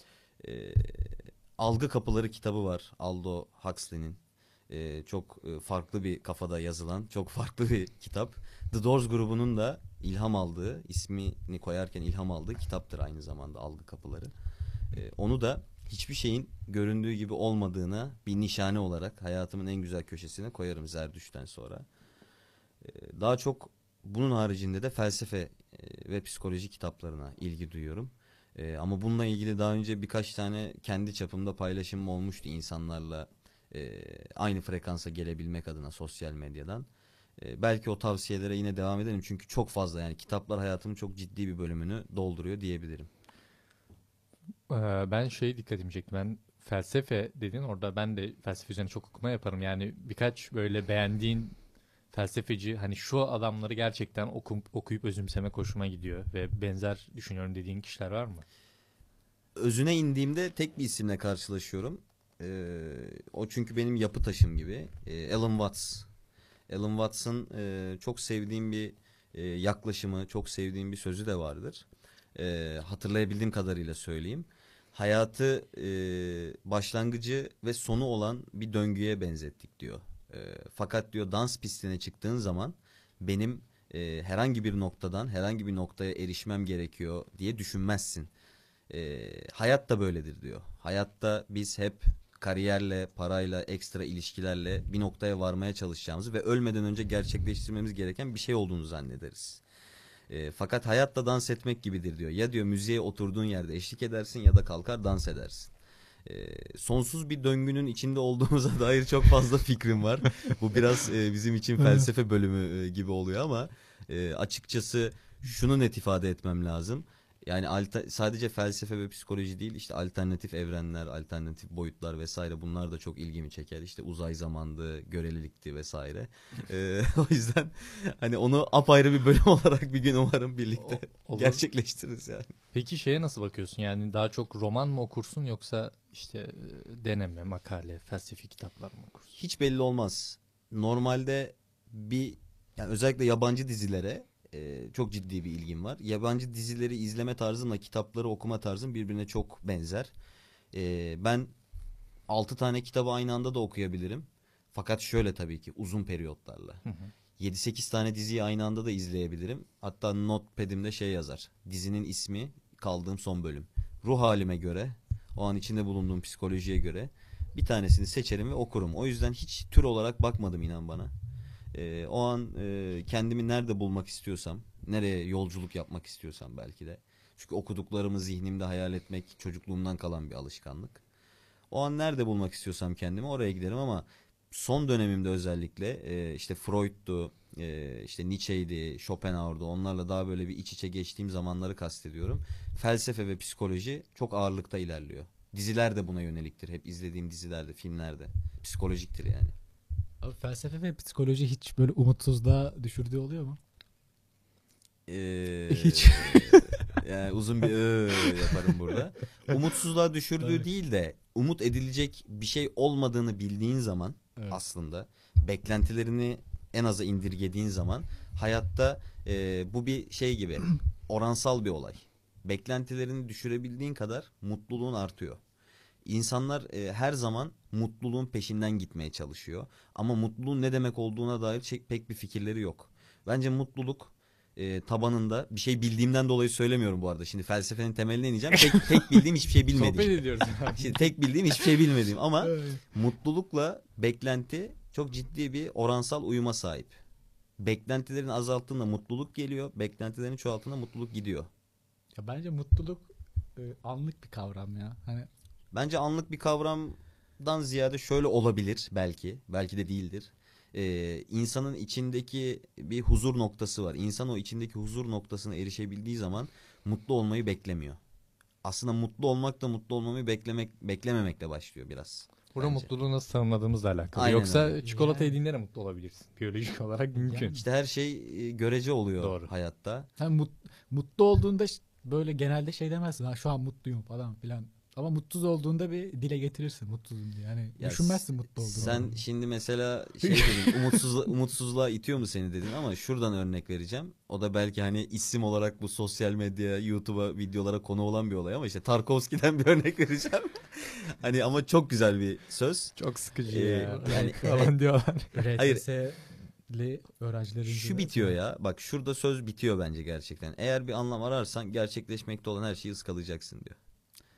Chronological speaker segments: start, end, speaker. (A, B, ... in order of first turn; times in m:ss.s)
0:00.4-0:14.3 A
0:14.9-0:21.9 A
0:22.8-0:36.9 A
0:37.4-0:43.1 A
0:44.7-0:51.5 B
0:52.1-0:58.4 B
0:59.6-1:06.1 A
1:06.7-1:28.3 A
1:28.9-1:39.6 A
1:40.3-1:45.7 A
1:46.2-2:12.5 A
2:10.8-2:11.6 B
2:12.7-2:19.3 B
2:19.4-2:30.1 A
2:30.7-2:31.5 A
2:32.3-2:36.8 A
2:36.8-2:37.1 B
2:37.4-2:51.1 A
2:51.7-3:01.0 A
3:01.7-3:19.5 A
3:20.2-3:23.6 C
3:25.1-3:45.4 A
3:25.7-3:26.8 C
3:46.0-4:07.0 A
3:59.7-4:01.0 B
4:02.4-4:02.8 C
4:07.6-4:11.5 A
4:12.2-4:15.3 C
4:15.7-4:28.0 A
4:28.6-4:32.9 A
4:32.5-4:37.6 B
4:34.1-4:34.8 A
4:34.8-4:35.4 C
4:37.2-4:37.5 C
4:37.5-4:40.1 A
4:39.2-4:39.5 B
4:40.2-4:49.2 C
4:47.8-5:02.9 A
4:50.2-4:51.0 C
5:03.0-5:05.3 B
5:03.5-5:04.7 A
5:03.8-5:04.7 C
5:05.3-5:08.3 C
5:05.6-5:05.8 A
5:07.6-5:13.8 A